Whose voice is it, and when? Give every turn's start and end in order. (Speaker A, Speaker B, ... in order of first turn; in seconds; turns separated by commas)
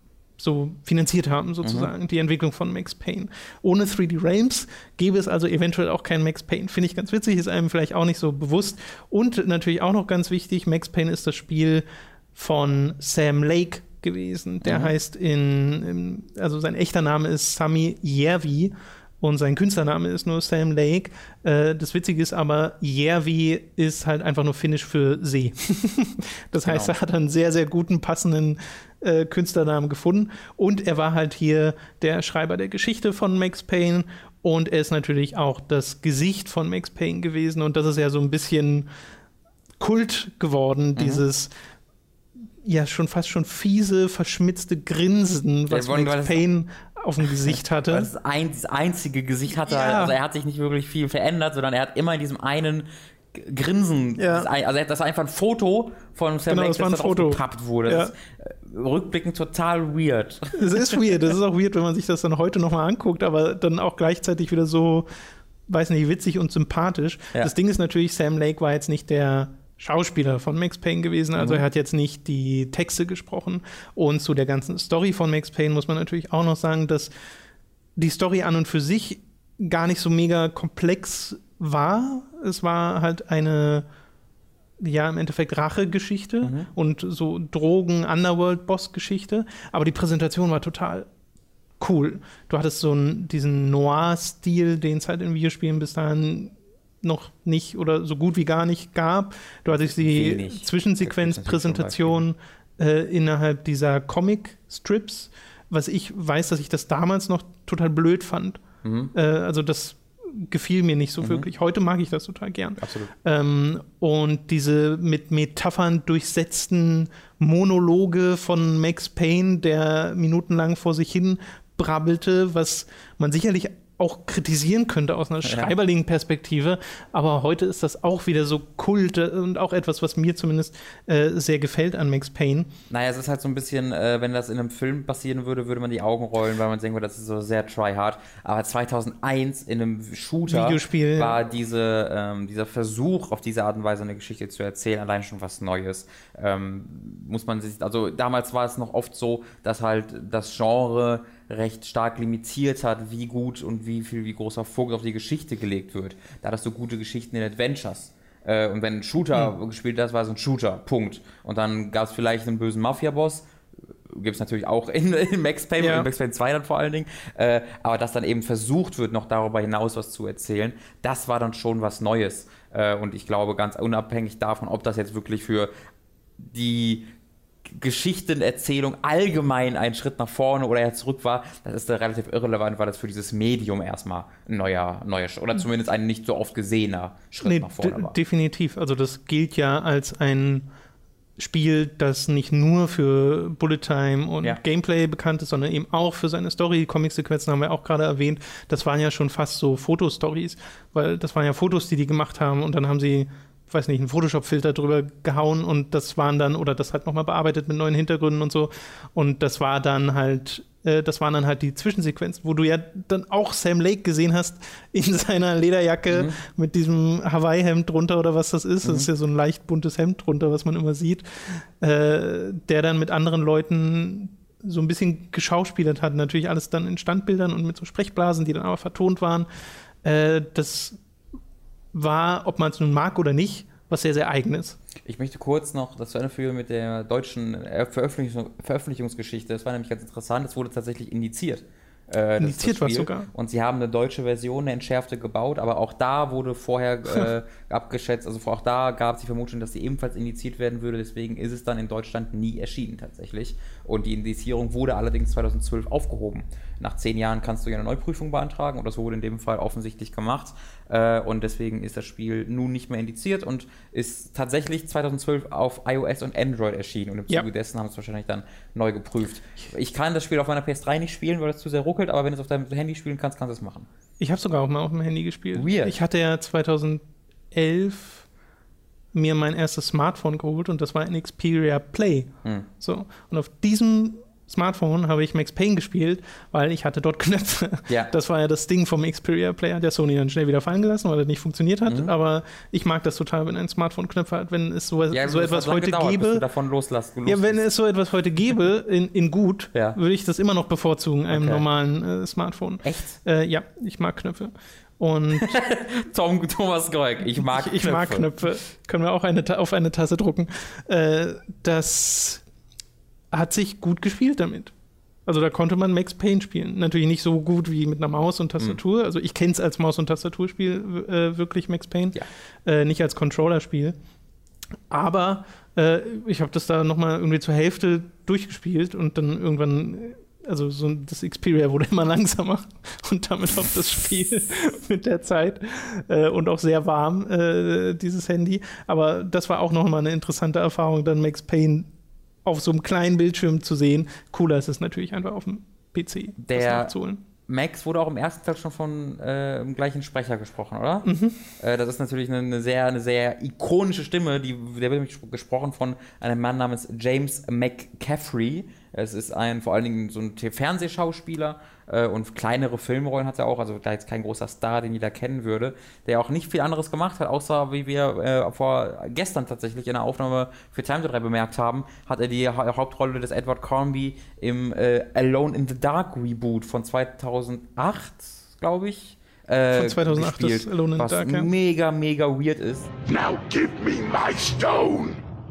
Speaker A: 0.4-38.9, Speaker B: 1.6-1.9, Speaker B: 14.6-14.9, Speaker B: 26.6-26.9, Speaker A: 39.8-41.5, Speaker B: 41.0-41.2, Speaker A: 42.6-48.1, Speaker B: 45.7-46.5, Speaker B: 47.5-60.9, Speaker A: 49.6-50.1, Speaker A: 54.2-54.5, Speaker A: 56.5-58.1, Speaker A: 60.6-65.1, Speaker A: 65.7-77.1, Speaker B: 71.4-71.6, Speaker A: 78.0-83.9, Speaker A: 84.8-91.1, Speaker B: 86.4-86.7, Speaker A: 91.8-108.6, Speaker B: 99.7-102.3, Speaker B: 108.8-109.1, Speaker A: 109.1-132.7, Speaker B: 111.2-111.5, Speaker B: 112.8-113.1, Speaker B: 125.4-125.7, Speaker B: 132.9-163.5, Speaker A: 140.5-141.4, Speaker B: 164.1-175.7, Speaker A: 165.8-166.1, Speaker B: 176.4-177.1, Speaker B: 177.7-188.2, Speaker A: 187.4-190.7, Speaker A: 191.4-229.5, Speaker B: 216.1-216.4, Speaker A: 230.0-231.0, Speaker A: 231.9-234.8, Speaker B: 235.1-273.9, Speaker A: 242.4-243.3, Speaker A: 274.2-278.3, Speaker B: 275.5-275.9, Speaker A: 279.1-282.3, Speaker A: 282.8-296.5, Speaker B: 291.9-292.1, Speaker B: 295.1-297.7, Speaker A: 297.3-305.5, Speaker B: 301.3-301.6, Speaker B: 302.8-303.2, Speaker B: 305.4-308.3, Speaker A: 307.4-312.4, Speaker A: 313.3-314.7, Speaker A: 315.3-324.0, Speaker A: 324.9-341.9, Speaker A: 342.4-347.2, Speaker B: 346.4-346.9, Speaker B: 347.5-382.9, Speaker A: 351.0-351.4, Speaker A: 379.7-381.5, Speaker C: 383.1-385.1